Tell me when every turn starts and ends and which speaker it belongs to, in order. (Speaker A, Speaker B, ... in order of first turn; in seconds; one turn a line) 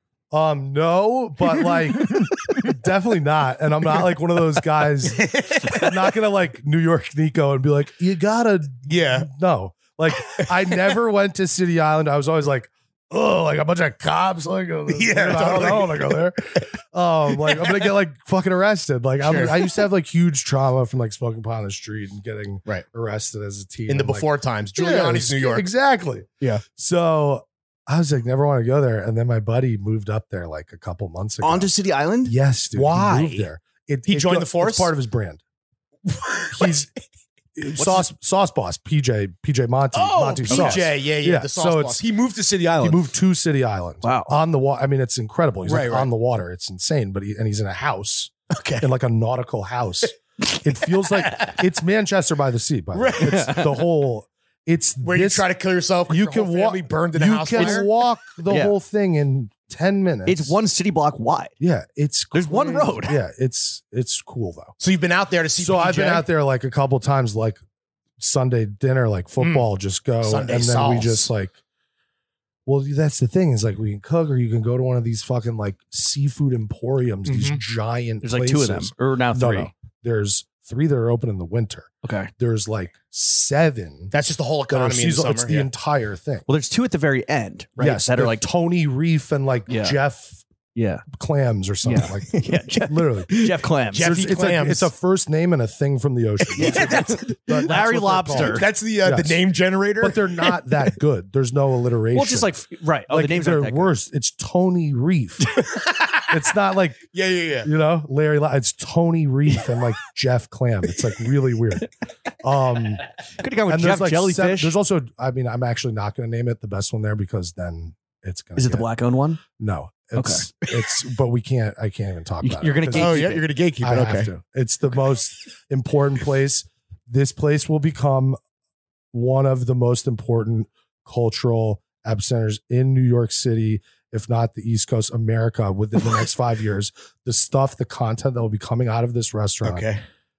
Speaker A: 0.3-35.4
Speaker B: 1.9-2.6
Speaker B: 5.1-6.0
Speaker B: 8.9-9.3
Speaker B: 10.3-10.8
Speaker B: 14.9-16.6
Speaker B: 17.4-17.9
Speaker B: 19.2-19.9
Speaker B: 23.9-25.7
Speaker C: 31.4-32.3
Speaker B: 32.7-33.5
Speaker B: 34.1-34.9
Speaker B: 36.1-36.8
Speaker A: 36.5-36.9
Speaker A: 37.6-42.0
Speaker C: 37.8-38.0
Speaker B: 39.9-43.1
Speaker C: 40.5-40.8
Speaker A: 42.8-55.5
Speaker C: 44.0-44.4
Speaker B: 45.7-46.1
Speaker B: 48.5-48.9
Speaker B: 51.1-51.6
Speaker B: 52.9-53.5
Speaker C: 53.2-53.7
Speaker B: 55.0-57.9
Speaker A: 56.1-60.6
Speaker C: 58.5-58.7
Speaker C: 60.3-61.5
Speaker A: 61.6-64.7
Speaker C: 62.3-63.2
Speaker B: 64.8-66.3
Speaker A: 65.6-67.6
Speaker A: 68.2-71.5
Speaker B: 69.4-69.7
Speaker B: 70.2-71.3
Speaker A: 72.7-84.1
Speaker B: 77.3-77.6
Speaker C: 78.2-79.7
Speaker C: 82.0-82.3
Speaker B: 84.1-85.7
Speaker A: 84.7-86.5
Speaker C: 86.5-88.5
Speaker A: 87.8-90.4
Speaker C: 89.7-90.0
Speaker C: 90.8-91.0
Speaker A: 91.1-93.4
Speaker C: 91.8-94.1
Speaker B: 92.3-92.8
Speaker B: 93.3-94.9
Speaker A: 94.0-99.4
Speaker B: 96.5-97.8
Speaker C: 96.6-98.7
Speaker B: 98.3-100.5
Speaker A: 100.0-102.5
Speaker C: 102.1-103.9
Speaker A: 103.1-105.6
Speaker B: 105.7-106.3
Speaker A: 106.3-107.1
Speaker B: 107.1-107.7
Speaker A: 107.6-113.0
Speaker C: 113.4-114.7
Speaker A: 113.7-118.9
Speaker C: 118.6-119.4
Speaker A: 119.6-128.4
Speaker C: 120.2-120.5
Speaker C: 122.4-123.4
Speaker B: 122.9-124.3
Speaker A: 129.1-139.9
Speaker B: 139.6-140.0